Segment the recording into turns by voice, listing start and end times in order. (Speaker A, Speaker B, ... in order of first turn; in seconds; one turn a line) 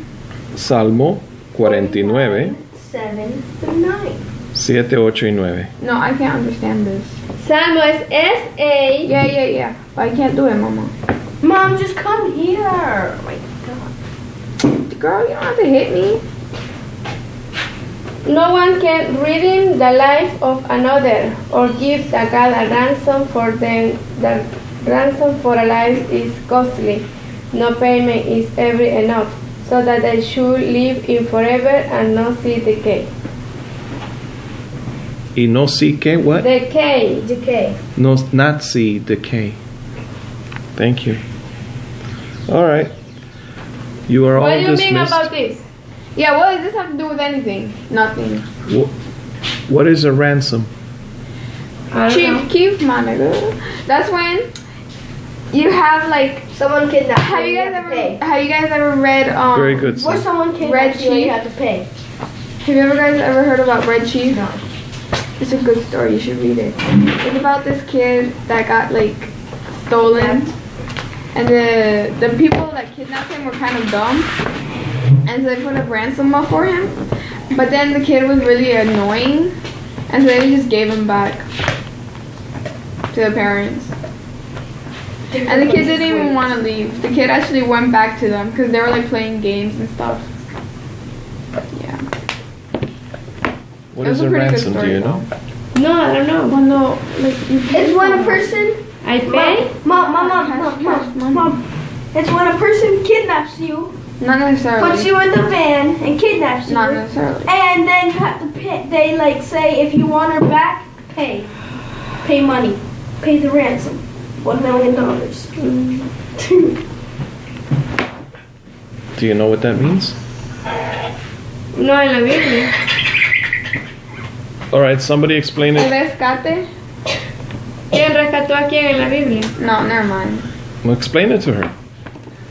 Speaker A: 0.5-2.5
Speaker B: 1.6-4.2
Speaker A: 4.5-5.7
Speaker C: 5.8-7.2
Speaker D: 7.4-9.1
Speaker C: 9.1-10.9
Speaker B: 11.4-13.9
Speaker C: 14.8-16.2
Speaker D: 18.2-33.1
Speaker A: 35.4-36.5
Speaker D: 36.4-37.3
Speaker B: 37.2-37.8
Speaker A: 38.0-39.6
Speaker A: 40.8-41.2
Speaker A: 42.5-42.9
Speaker A: 44.1-45.3
Speaker D: 44.4-45.6
Speaker C: 46.2-48.5
Speaker A: 48.7-48.9
Speaker A: 49.7-50.7
Speaker D: 51.9-52.5
Speaker C: 52.1-54.5
Speaker C: 55.5-56.5
Speaker B: 56.5-58.2
Speaker C: 57.2-59.9
Speaker A: 59.5-60.3
Speaker B: 59.9-61.9
Speaker C: 60.6-61.4
Speaker C: 62.6-64.4
Speaker B: 64.3-64.6
Speaker C: 65.4-70.5
Speaker B: 70.0-70.5
Speaker C: 71.3-74.3
Speaker C: 75.3-79.5
Speaker C: 80.1-81.5
Speaker C: 83.1-83.9
Speaker B: 85.3-86.5
Speaker C: 85.5-90.3
Speaker C: 91.7-92.0
Speaker A: 93.9-95.2
Speaker C: 94.0-95.3
Speaker D: 95.8-96.6
Speaker C: 96.5-98.7
Speaker B: 97.7-101.6
Speaker D: 99.0-99.7
Speaker C: 99.3-101.5
Speaker B: 102.1-103.9
Speaker C: 104.2-105.1
Speaker B: 104.8-111.5
Speaker C: 106.7-107.5
Speaker B: 112.2-115.6
Speaker D: 115.6-116.0
Speaker B: 116.4-116.8
Speaker A: 119.2-120.2
Speaker D: 121.7-122.7
Speaker A: 124.7-125.9
Speaker C: 125.7-126.7
Speaker D: 127.9-129.5
Speaker C: 129.6-130.5
Speaker A: 130.8-131.7